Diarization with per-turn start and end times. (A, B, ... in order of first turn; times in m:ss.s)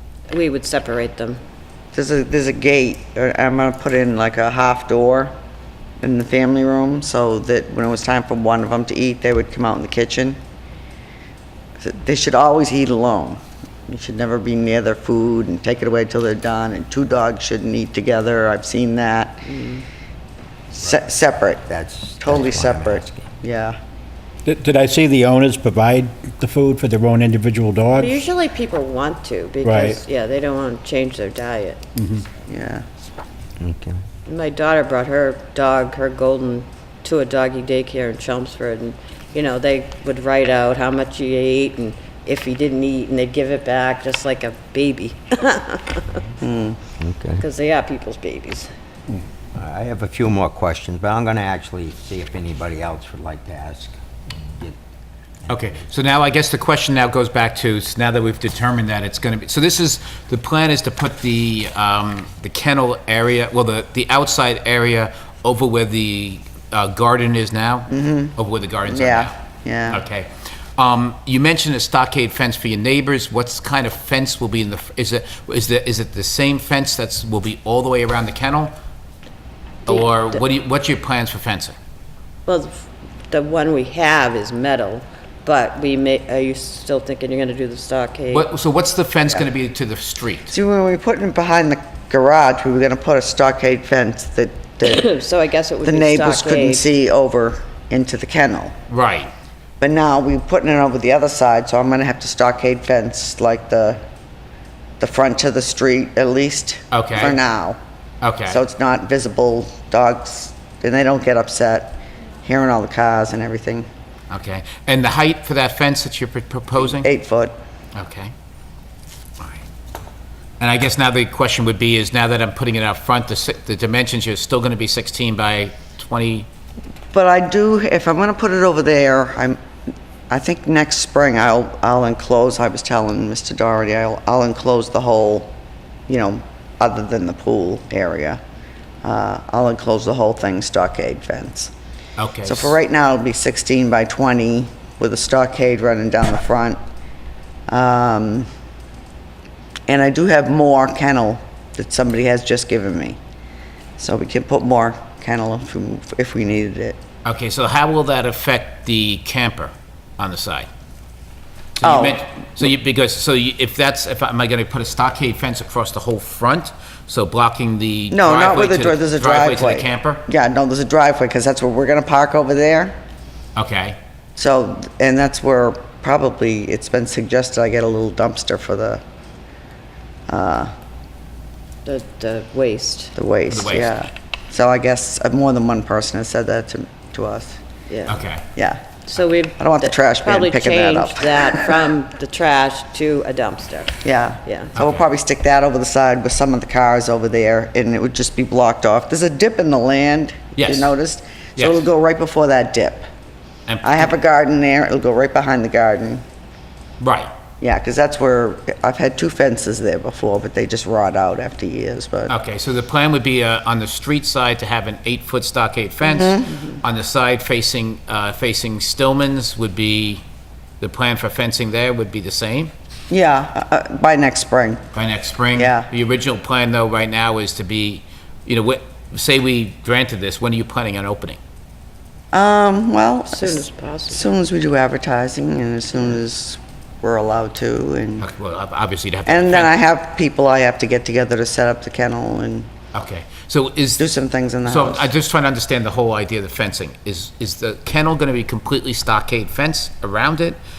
0:00.3-0:01.4 A
0:01.9-0:05.3 B
0:06.0-0:10.4 B
0:11.8-0:19.5 B
0:19.5-0:19.8 A
0:20.7-0:21.6 B
0:20.8-0:21.1 C
0:21.6-0:23.2 C
0:22.2-0:23.8 B
0:24.4-0:28.2 D
0:27.9-0:31.8 A
0:29.6-0:30.0 D
0:32.5-0:32.8 B
0:33.6-0:34.0 C
0:34.2-0:46.2 A
0:46.4-0:46.8 B
0:47.0-0:47.4 C
0:47.4-0:48.7 A
0:49.5-0:54.0 C
0:55.5-1:09.4 E
1:07.9-1:10.0 B
1:09.9-1:18.7 E
1:19.8-1:21.7 E
1:19.8-1:20.4 A
1:22.4-1:28.5 A
1:28.3-1:30.5 E
1:30.5-1:35.0 B
1:34.8-1:36.9 A
1:35.8-1:38.7 B
1:38.9-1:39.3 E
1:39.8-1:44.0 B
1:45.0-1:47.8 B
1:46.9-1:47.4 E
1:48.2-1:48.6 E
1:48.5-1:53.8 B
1:54.3-1:57.1 E
1:56.8-1:57.5 B
1:57.9-1:58.3 E
1:59.4-1:59.6 E
2:00.6-2:06.5 E
2:07.1-2:09.6 B
2:10.3-2:15.5 B
2:16.1-2:18.4 B
2:19.0-2:21.7 B
2:22.2-2:22.8 E
2:22.4-2:26.8 B
2:27.7-2:28.5 B
2:29.9-2:33.2 B
2:34.0-2:37.0 B
2:37.2-2:40.7 E
2:41.8-2:50.2 E
2:41.8-2:42.3 B
2:48.1-2:53.0 B
2:53.6-2:54.0 E
2:54.4-2:59.0 B
3:00.3-3:00.7 B
3:01.8-3:03.1 A
3:03.1-3:07.6 B
3:03.5-3:04.0 E
3:07.9-3:08.2 A
3:08.1-3:08.4 E
3:08.6-3:09.0 B
3:09.0-3:14.8 A
3:09.6-3:11.7 B
3:14.0-3:23.0 B
3:14.8-3:15.0 E
3:20.6-3:20.9 E
3:21.6-3:21.9 E
3:23.7-3:24.1 E
3:23.8-3:26.2 B
3:27.0-3:27.3 E
3:27.6-3:32.3 B
3:32.3-3:40.2 E
3:36.0-3:36.8 B
3:40.8-3:42.7 E
3:43.1-3:44.8 B
3:44.9-3:51.4 E
3:45.5-3:45.9 B
3:52.3-3:58.3 B
3:53.3-3:54.3 A
3:58.2-3:59.7 E
3:59.2-4:02.7 B
4:02.9-4:04.1 E
4:04.0-4:05.1 B
4:04.6-4:10.6 E